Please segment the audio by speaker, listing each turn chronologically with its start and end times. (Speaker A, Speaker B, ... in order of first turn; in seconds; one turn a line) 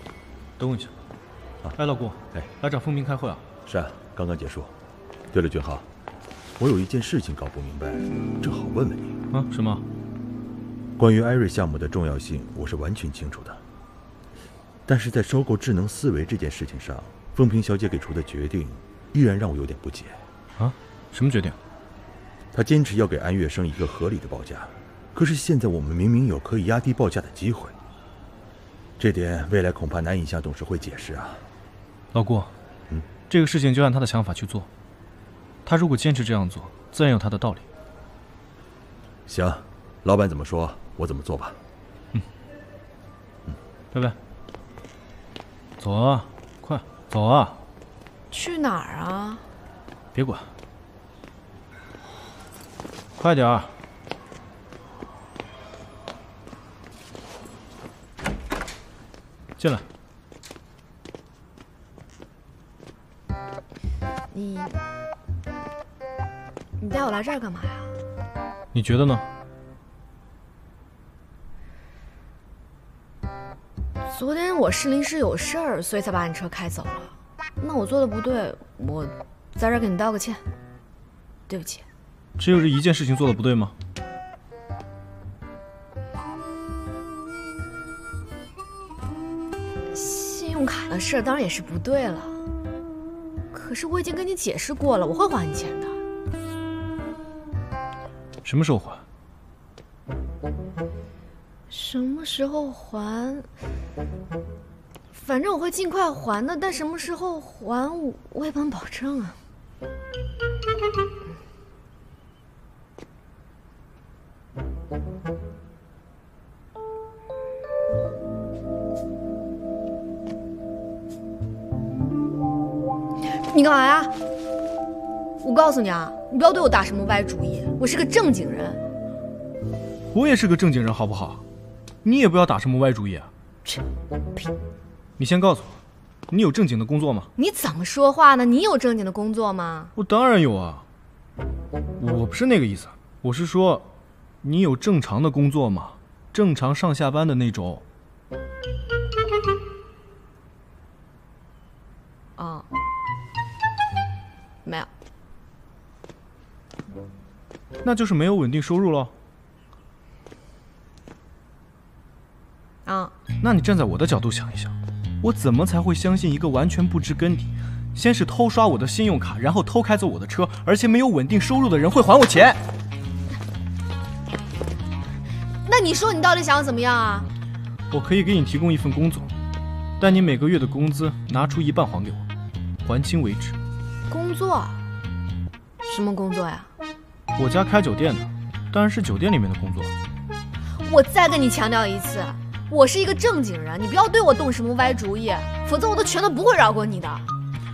Speaker A: 0.6-0.9
Speaker A: 1.8-3.4
Speaker B: 3.6-4.7
Speaker B: 5.3-5.9
Speaker B: 6.6-9.1
Speaker A: 9.3-9.8
Speaker B: 11.0-13.6
Speaker B: 14.9-20.2
Speaker A: 20.6-21.6
Speaker B: 22.5-27.8
Speaker B: 29.0-31.5
Speaker A: 32.1-32.5
Speaker A: 33.3-34.7
Speaker A: 35.6-37.6
Speaker B: 39.3-41.6
Speaker A: 45.8-47.6
Speaker C: 48.3-49.4
Speaker A: 50.1-50.5
Speaker A: 53.2-53.7
Speaker A: 59.6-59.8
Speaker C: 64.3-64.8
Speaker C: 66.8-67.9
Speaker A: 68.7-69.2
Speaker C: 74.1-80.4
Speaker C: 81.5-81.8
Speaker A: 82.4-83.7
Speaker C: 89.9-92.4
Speaker C: 93.5-96.0
Speaker A: 98.4-99.0
Speaker C: 101.7-103.5
Speaker C: 105.1-109.4
Speaker C: 123.5-124.1
Speaker C: 125.4-128.8
Speaker A: 130.1-131.4
Speaker A: 132.0-133.3
Speaker A: 135.2-135.8
Speaker A: 136.3-137.3
Speaker C: 137.4-139.9
Speaker A: 139.9-140.8
Speaker A: 142.0-143.9
Speaker A: 144.4-147.8
Speaker C: 152.4-152.7
Speaker A: 157.8-159.1
Speaker C: 162.8-163.1
Speaker A: 163.4-172.6
Speaker C: 175.6-177.3
Speaker A: 177.9-179.3
Speaker A: 180.0-182.2
Speaker A: 182.8-183.6
Speaker C: 184.1-184.8
Speaker C: 185.9-186.7
Speaker A: 187.4-189.9
Speaker C: 190.8-197.2